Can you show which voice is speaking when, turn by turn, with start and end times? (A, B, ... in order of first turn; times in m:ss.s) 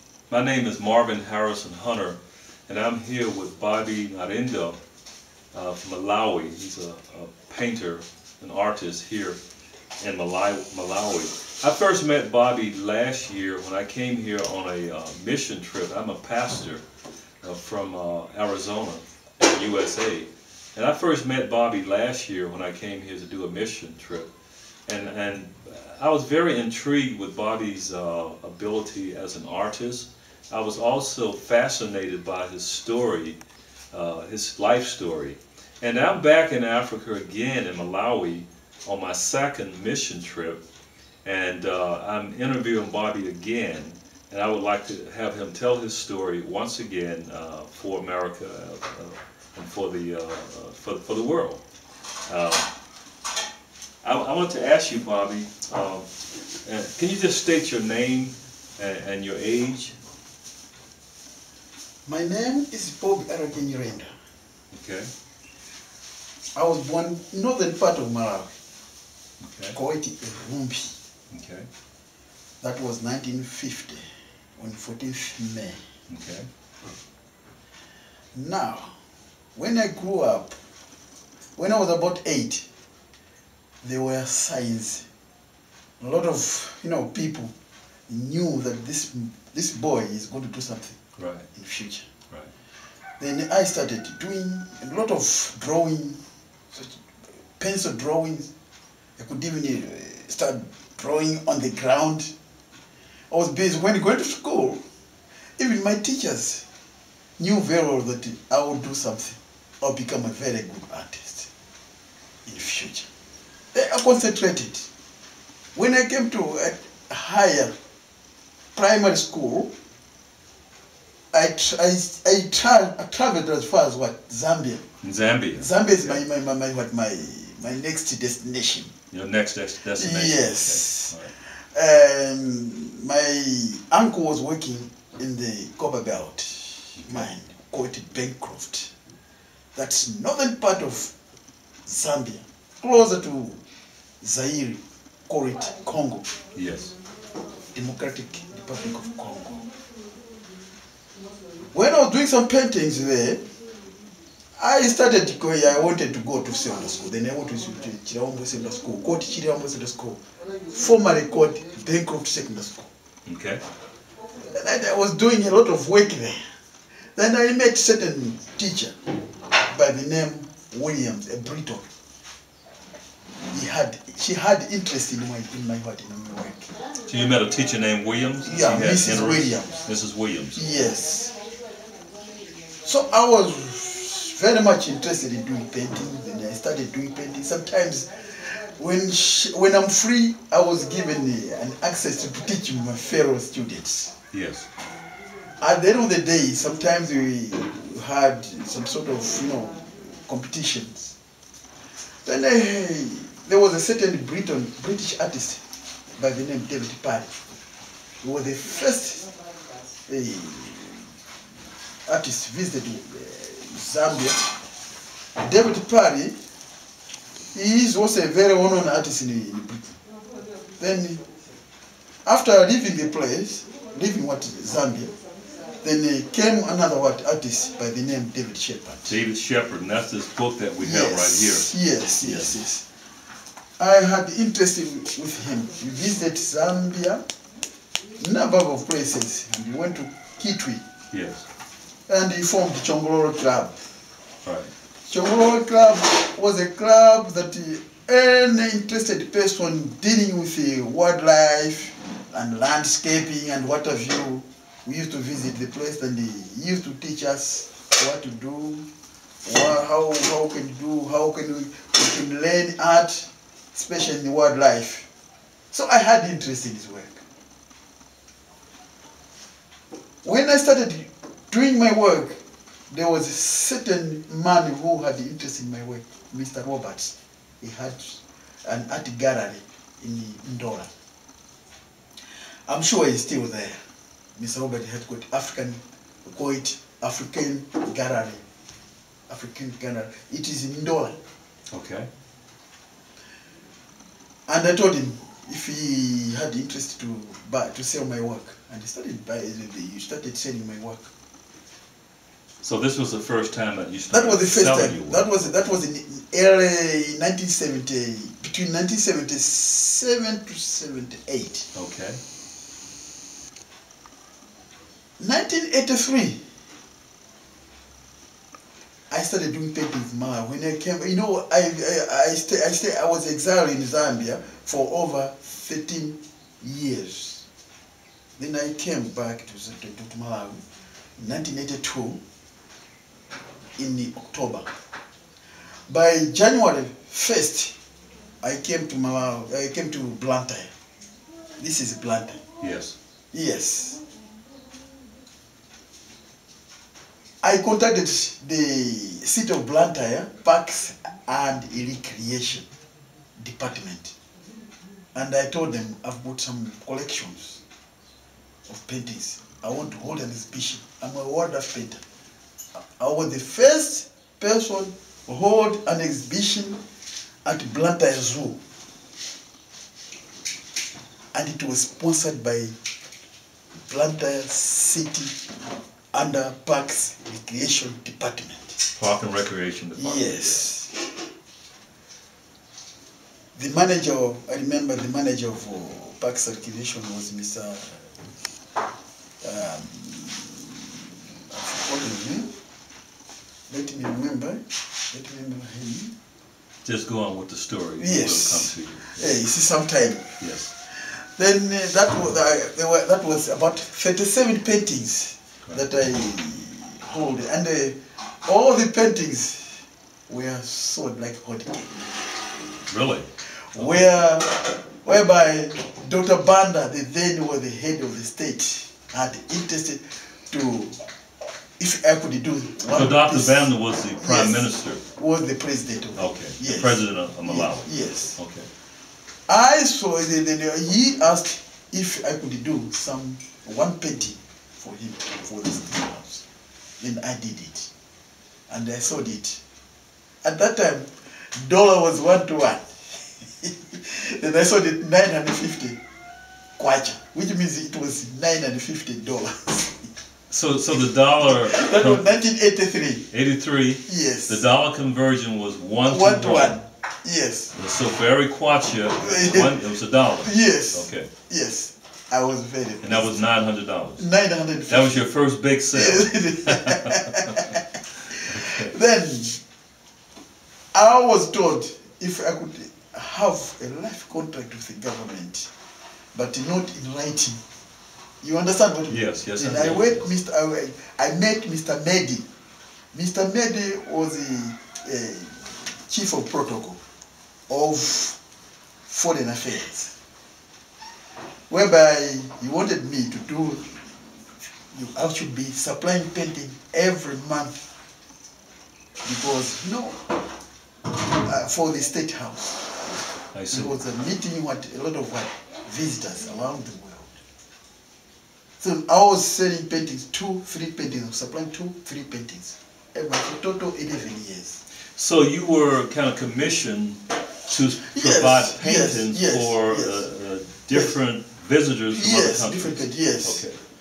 0:00.3-0:04.8 A
0:05.5-0:09.4 A
0:10.0-0:16.8 A
0:17.4-0:24.3 A
0:24.9-0:33.4 A
0:33.9-0:40.6 A
0:41.2-0:51.6 A
0:52.2-0:52.7 A
0:54.0-0:56.1 A
0:56.6-1:00.0 A
1:02.0-1:04.1 B
1:04.7-1:05.1 A
1:06.5-1:08.5 B
1:09.4-1:09.8 A
1:09.7-1:10.9 B
1:11.3-1:11.7 A
1:12.6-1:14.0 B
1:14.6-1:15.8 B
1:16.1-1:16.5 A
1:18.3-1:18.9 B
1:19.6-1:20.5 B
1:21.6-1:22.6 B
1:23.8-1:25.0 B
1:26.0-1:27.5 B
1:28.1-1:31.0 B
1:31.2-1:31.5 A
1:31.5-1:32.1 B
1:33.2-1:37.0 B
1:37.6-1:38.5 B
1:39.2-1:42.3 B
1:43.3-1:44.8 B
1:45.6-1:46.6 B
1:47.4-1:51.5 B
1:52.5-1:53.1 B
1:53.7-1:54.9 B
1:55.7-1:57.7 B
1:58.8-1:59.7 B
2:01.3-2:04.8 B
2:05.0-2:06.2 A
2:05.6-2:08.9 B
2:09.1-2:11.3 A
2:10.0-2:11.2 B
2:11.7-2:18.9 B
2:17.0-2:17.3 A
2:19.7-2:21.1 B
2:21.8-2:23.6 B
2:24.2-2:26.3 B
2:26.5-2:26.9 A
2:27.7-2:29.7 B
2:31.7-2:33.4 B
2:34.6-2:42.9 B
2:43.2-2:43.6 A
2:44.5-2:46.4 B
2:47.2-2:48.9 B
2:49.7-2:51.9 B
2:53.5-2:56.7 B
2:57.0-3:00.7 A
2:58.4-2:59.8 B
3:00.5-3:01.3 B
3:02.8-3:14.1 B
3:14.3-3:14.7 A
3:15.6-3:21.1 B
3:22.2-3:25.6 B
3:26.2-3:27.3 B
3:28.2-3:29.3 B
3:30.1-3:31.1 B
3:32.1-3:34.4 B
3:35.4-3:36.3 B
3:37.5-3:40.0 B
3:40.8-3:41.2 B
3:42.2-3:45.1 B
3:45.8-3:49.2 B
3:49.0-3:51.7 A
3:50.8-3:52.8 B
3:52.2-3:52.6 A
3:53.8-3:57.2 B
3:58.2-4:00.8 B
4:01.1-4:01.5 A
4:02.1-4:03.7 B
4:04.4-4:04.7 A
4:05.1-4:18.8 B
4:19.4-4:25.1 B
4:25.7-4:27.2 B
4:30.2-4:32.4 B
4:32.9-4:40.9 B
4:42.7-4:43.8 B
4:44.4-4:48.4 B
4:49.3-4:51.2 B
4:51.7-4:52.1 A
4:54.5-5:01.1 B
5:02.6-5:05.5 A
5:04.1-5:11.7 B
5:11.7-5:12.2 A
5:15.2-5:16.4 B
5:19.1-5:27.5 B
5:28.4-5:30.6 B
5:31.2-5:32.2 B
5:33.8-5:34.7 B
5:35.9-5:37.7 B
5:38.4-5:40.7 B
5:41.6-5:42.4 B
5:42.6-5:43.0 A
5:43.3-5:44.0 B
5:47.4-5:52.6 B
5:53.4-5:54.1 B
5:55.1-5:57.6 B
5:58.7-6:02.0 B
6:02.8-6:06.8 B
6:07.4-6:08.6 B
6:11.3-6:12.7 B
6:13.8-6:15.4 B
6:16.1-6:18.8 B
6:18.9-6:20.6 A
6:20.0-6:21.0 B
6:23.5-6:28.1 B
6:29.4-6:31.0 B
6:31.5-6:32.5 B
6:33.7-6:36.1 B
6:36.8-6:39.4 A
6:38.0-6:40.3 B
6:40.4-6:40.7 A
6:41.0-6:52.2 B
6:52.9-6:54.0 A
6:53.7-7:01.0 B
7:01.8-7:08.4 B
7:02.9-7:05.0 A
7:06.2-7:08.7 A
7:09.5-7:16.4 B
7:17.0-7:17.9 B
7:18.7-7:19.6 B
7:20.4-7:22.8 B
7:23.4-7:26.0 B
7:26.8-7:30.0 B
7:30.5-7:32.3 A
7:31.4-7:33.3 B
7:33.3-7:36.8 A
7:34.0-7:34.6 B
7:36.0-7:37.7 B
7:37.7-7:41.3 A
7:39.2-7:39.8 B
7:40.4-7:43.4 B
7:43.0-7:44.3 A
7:44.2-7:45.2 B
7:44.9-7:47.8 A
7:45.9-7:47.8 B
7:48.3-7:49.6 B
7:48.3-7:48.9 A
7:50.9-7:55.7 B
7:56.3-7:57.6 B
7:58.4-8:02.4 B
7:59.1-8:00.3 A
8:03.1-8:07.0 B
8:07.7-8:08.4 B
8:09.1-8:10.2 B
8:11.7-8:13.8 B
8:14.9-8:17.9 B
8:19.2-8:20.2 B
8:21.4-8:23.0 B
8:23.5-8:24.0 A
8:23.7-8:27.4 B
8:28.8-8:34.8 B
8:35.1-8:43.8 A
8:38.0-8:40.3 B
8:42.1-8:43.6 B